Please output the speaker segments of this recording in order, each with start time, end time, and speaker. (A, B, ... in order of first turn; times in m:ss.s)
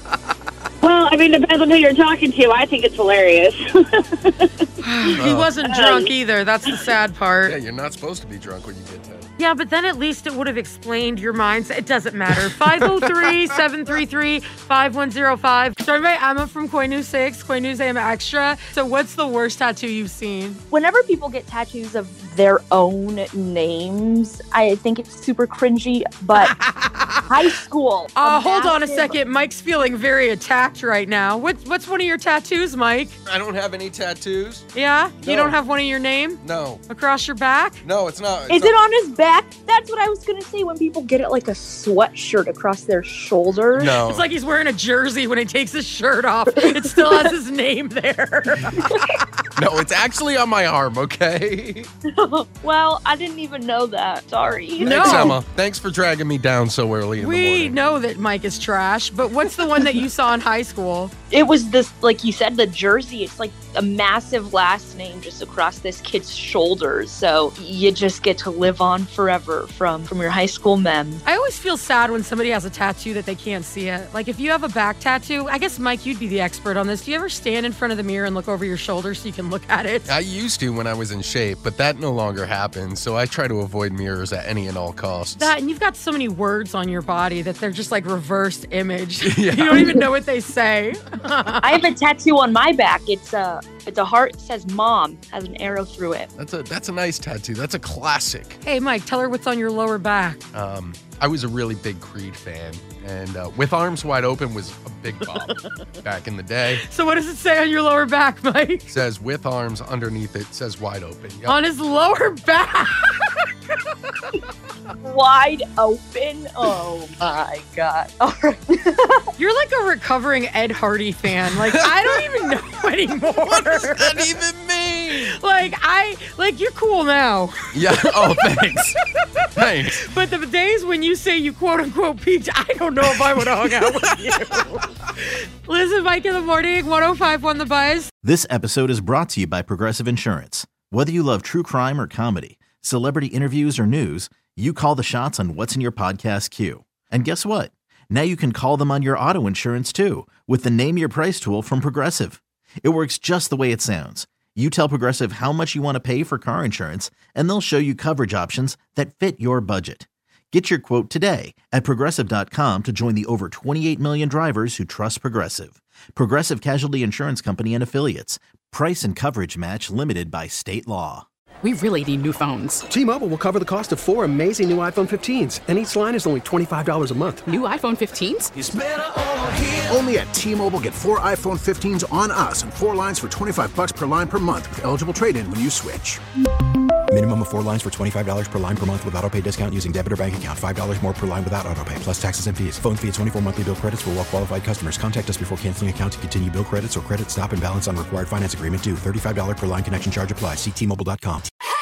0:00.8-0:04.5 A
0:04.8-0:07.6 B
0:05.2-0:05.5 C
0:05.6-0:06.1 A
0:07.4-0:09.3 C
0:09.4-0:20.6 B
0:20.7-0:26.6 D
0:26.3-0:27.3 B
0:27.3-0:29.2 D
0:28.2-0:33.2 B
0:33.2-0:34.6 C
0:34.7-0:37.8 B
0:35.2-0:35.6 C
0:36.4-0:36.8 C
0:37.8-0:38.8 C
0:38.5-0:44.0 D
0:43.7-0:44.2 C
0:44.0-0:49.0 B
0:49.6-0:51.9 C
0:52.2-0:55.4 D
0:54.4-0:57.7 C
0:54.8-0:55.4 B
0:57.2-1:01.1 B
1:01.3-1:11.2 D
1:11.2-1:20.1 B
1:20.1-1:25.5 C
1:25.4-1:31.7 B
1:29.2-1:30.0 C
1:31.6-1:36.3 D
1:36.3-1:38.6 C
1:38.6-1:40.4 B
1:40.5-1:46.8 C
1:46.8-1:48.9 B
1:48.9-1:51.6 C
1:51.4-1:53.4 B
1:55.0-1:59.2 D
1:59.4-2:04.3 B
2:03.4-2:05.3 C
2:05.1-2:07.7 B
2:07.7-2:09.0 C
2:09.5-2:10.0 C
2:09.9-2:18.1 B
2:18.2-2:51.2 E
2:51.6-2:52.8 F
2:52.9-2:57.4 G
2:57.5-2:58.5 F
2:58.6-3:06.2 H
3:07.1-3:21.4 I